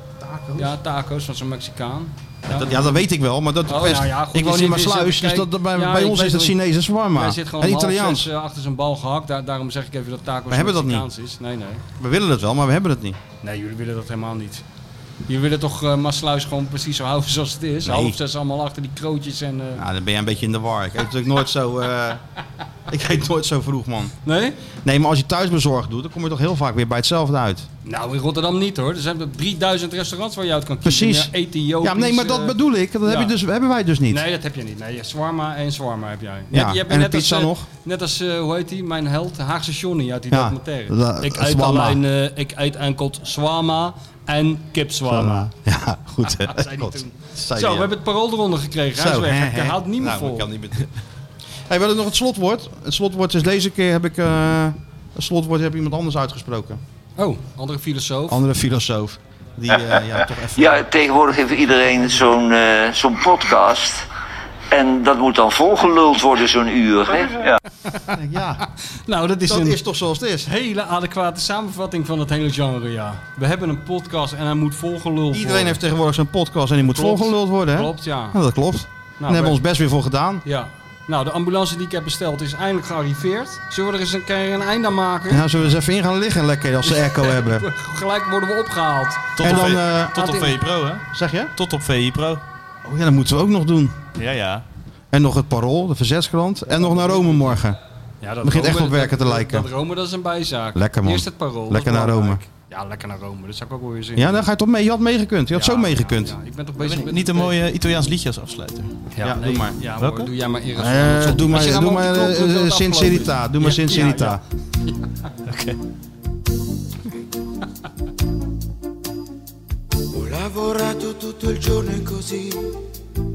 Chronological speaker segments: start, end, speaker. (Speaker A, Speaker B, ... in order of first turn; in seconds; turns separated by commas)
Speaker A: 0.2-0.7, Speaker B: 0.6-3.0, Speaker A: 2.5-8.3, Speaker B: 3.7-6.6, Speaker B: 7.1-11.8, Speaker A: 10.5-11.1, Speaker A: 12.0-13.2, Speaker B: 13.4-14.6, Speaker B: 15.3-19.8, Speaker A: 17.9-18.2, Speaker A: 19.8-22.2, Speaker A: 22.9-24.1, Speaker B: 24.2-24.6, Speaker A: 24.8-27.7, Speaker B: 27.8-33.3, Speaker A: 30.8-34.2, Speaker B: 34.1-45.5, Speaker A: 36.5-37.6, Speaker A: 40.3-42.0, Speaker A: 45.0-47.9, Speaker B: 46.2-50.5, Speaker A: 48.9-50.9, Speaker A: 51.7-56.8, Speaker B: 57.2-58.4, Speaker A: 58.3-62.0, Speaker C: 60.5-64.0, Speaker C: 64.7-67.6, Speaker B: 67.8-68.1, Speaker A: 68.1-68.6, Speaker B: 68.8-69.8, Speaker A: 69.5-70.5, Speaker B: 70.4-75.8, Speaker A: 75.3-80.4, Speaker B: 76.9-78.4, Speaker B: 79.2-79.6, Speaker B: 80.4-85.5, Speaker A: 85.3-87.7, Speaker B: 86.8-90.5, Speaker D: 89.4-92.4, Speaker A: 89.4-90.3, Speaker A: 91.1-91.5, Speaker A: 92.8-94.0, Speaker D: 94.1-94.6, Speaker A: 95.1-97.8, Speaker B: 96.7-97.6, Speaker B: 98.2-104.4, Speaker A: 98.4-99.7, Speaker A: 100.7-102.4, Speaker A: 104.2-106.3, Speaker B: 105.5-107.5, Speaker D: 106.8-109.0, Speaker B: 109.1-115.1, Speaker A: 109.2-109.8, Speaker D: 110.0-110.3, Speaker A: 110.8-114.4, Speaker D: 115.5-115.8, Speaker E: 120.1-122.8